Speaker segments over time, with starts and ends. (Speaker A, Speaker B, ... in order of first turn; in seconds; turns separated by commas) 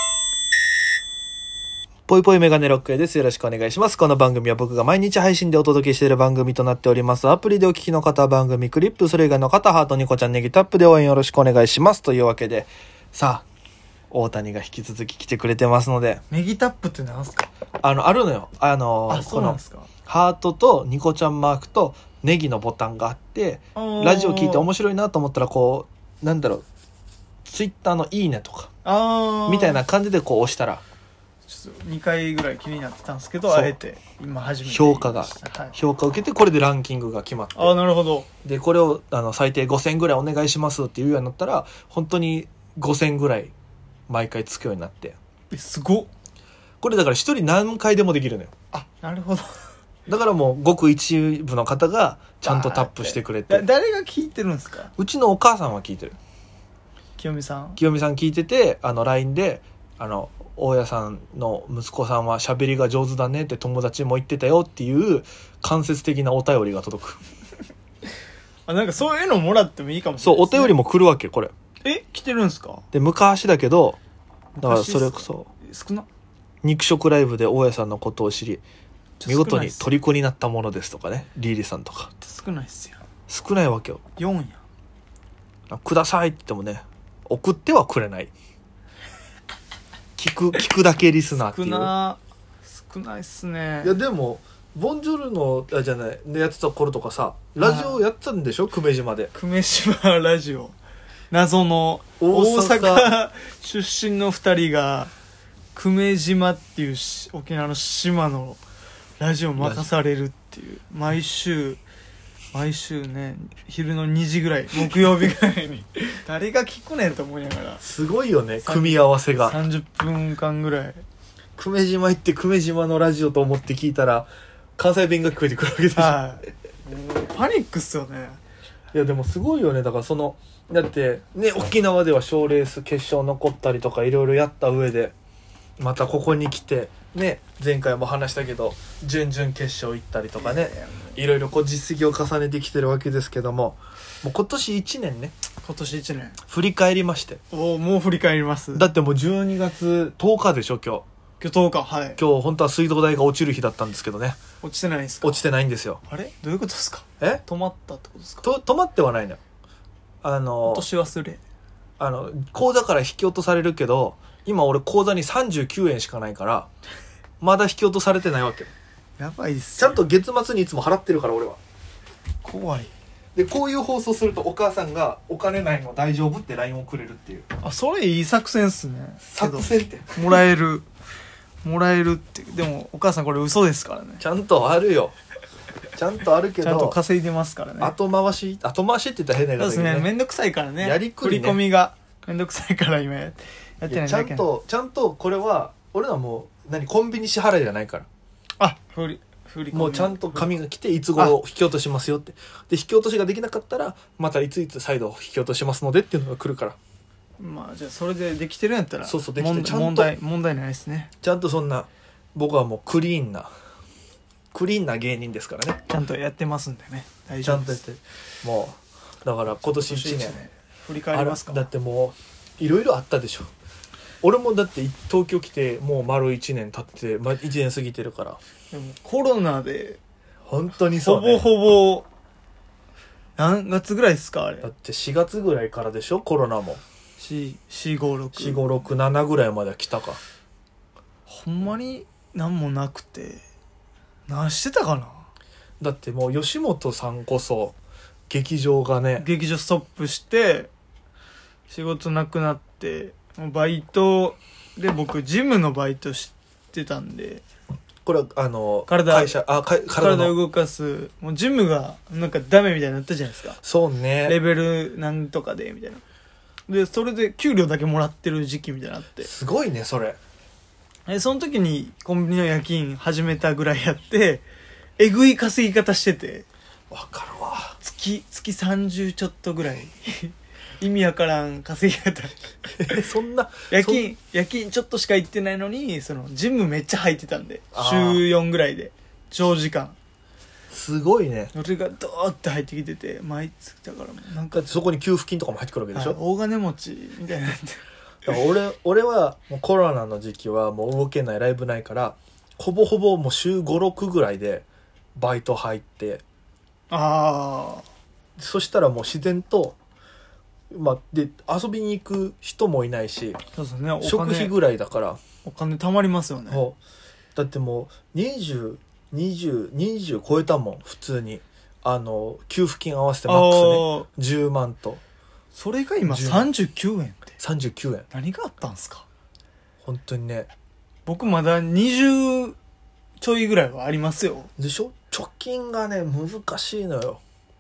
Speaker A: 2.1-13.5, Speaker A: 14.1-16.2, Speaker B: 16.3-17.5, Speaker A: 17.8-26.6, Speaker B: 19.1-19.9, Speaker B: 23.7-24.7, Speaker A: 27.4-28.7, Speaker B: 28.8-29.8, Speaker A: 29.5-30.8, Speaker B: 31.4-35.8, Speaker A: 33.5-33.8, Speaker A: 34.6-37.7, Speaker B: 37.5-38.3, Speaker A: 38.4-43.5, Speaker A: 44.1-45.2, Speaker B: 45.5-46.1, Speaker A: 46.8-48.5, Speaker B: 48.7-49.6, Speaker A: 50.1-53.7, Speaker B: 52.4-54.9, Speaker A: 55.0-56.1, Speaker B: 57.2-57.8, Speaker A: 57.8-67.2, Speaker B: 68.7-70.7, Speaker A: 70.2-71.5, Speaker B: 71.8-72.8, Speaker A: 72.9-74.0, Speaker B: 74.5-76.1, Speaker A: 74.6-75.5, Speaker A: 76.6-78.6, Speaker B: 79.2-80.0, Speaker A: 79.3-82.1, Speaker B: 82.2-83.0, Speaker A: 83.3-84.0, Speaker B: 84.2-84.6, Speaker A: 85.7-88.3, Speaker A: 90.2-91.9, Speaker B: 91.4-94.0, Speaker A: 93.8-99.3, Speaker B: 97.6-98.0, Speaker B: 99.3-100.7, Speaker B: 101.3-105.1, Speaker A: 102.2-103.1, Speaker B: 105.7-108.6, Speaker B: 109.2-111.8, Speaker A: 109.6-109.9, Speaker B: 112.5-117.8, Speaker A: 117.8-119.6, Speaker B: 118.6-121.0, Speaker A: 121.6-126.2, Speaker B: 125.9-128.4, Speaker A: 128.9-135.1, Speaker A: 135.8-145.3, Speaker B: 140.4-141.2, Speaker B: 145.6-146.4, Speaker A: 146.5-147.4, Speaker B: 147.5-148.9, Speaker A: 148.7-151.0, Speaker B: 151.4-152.2, Speaker A: 152.2-154.4, Speaker B: 154.6-155.4, Speaker A: 155.2-156.0, Speaker B: 156.1-158.4, Speaker A: 158.4-159.4, Speaker A: 160.2-160.9, Speaker B: 160.6-161.4, Speaker A: 162.0-166.7, Speaker A: 167.4-168.7, Speaker B: 169.2-170.0, Speaker A: 169.8-171.6, Speaker B: 172.4-172.9, Speaker A: 173.3-177.5, Speaker B: 177.6-180.8, Speaker A: 179.2-180.4, Speaker B: 181.6-184.2, Speaker A: 184.2-185.1, Speaker A: 185.9-187.0, Speaker B: 186.6-187.9, Speaker A: 187.8-190.1, Speaker B: 189.6-194.5, Speaker A: 190.8-191.6, Speaker A: 193.9-198.1, Speaker B: 198.6-200.5, Speaker A: 199.7-206.8, Speaker B: 207.4-211.1, Speaker A: 209.0-210.1, Speaker A: 211.2-213.5, Speaker A: 214.5-215.8, Speaker B: 215.9-217.8, Speaker A: 217.4-220.4, Speaker B: 219.6-221.7, Speaker A: 221.1-223.5, Speaker A: 224.2-228.4, Speaker B: 228.7-230.0, Speaker A: 230.5-231.5, Speaker B: 231.0-232.1, Speaker B: 233.4-234.7, Speaker A: 234.6-236.8, Speaker B: 237.2-238.7, Speaker A: 238.3-240.2, Speaker B: 241.3-243.4, Speaker B: 244.3-245.3, Speaker A: 245.8-247.8, Speaker A: 248.3-249.3, Speaker B: 249.2-250.7, Speaker B: 251.7-257.4, Speaker A: 258.0-260.3, Speaker B: 258.9-263.6, Speaker A: 263.6-264.4, Speaker B: 264.2-266.0, Speaker B: 266.7-269.3, Speaker A: 269.2-270.2, Speaker B: 271.1-274.4, Speaker B: 275.0-276.4, Speaker A: 276.9-277.8, Speaker B: 277.8-282.4, Speaker A: 282.7-284.1, Speaker B: 283.7-290.0, Speaker A: 287.7-288.2, Speaker A: 290.7-291.5, Speaker B: 291.5-294.7, Speaker A: 294.5-296.2, Speaker B: 295.9-297.8, Speaker A: 298.2-306.2, Speaker B: 306.9-307.8, Speaker A: 308.4-309.8, Speaker A: 310.7-313.4, Speaker B: 313.5-314.5, Speaker A: 314.0-315.2, Speaker B: 315.4-316.6, Speaker A: 316.5-316.8, Speaker A: 317.4-325.0, Speaker B: 323.2-324.1, Speaker B: 325.5-327.3, Speaker A: 326.0-326.5, Speaker A: 327.4-328.1, Speaker B: 328.1-329.0, Speaker A: 329.8-330.5, Speaker B: 331.1-332.6, Speaker B: 333.2-334.5, Speaker A: 334.6-337.2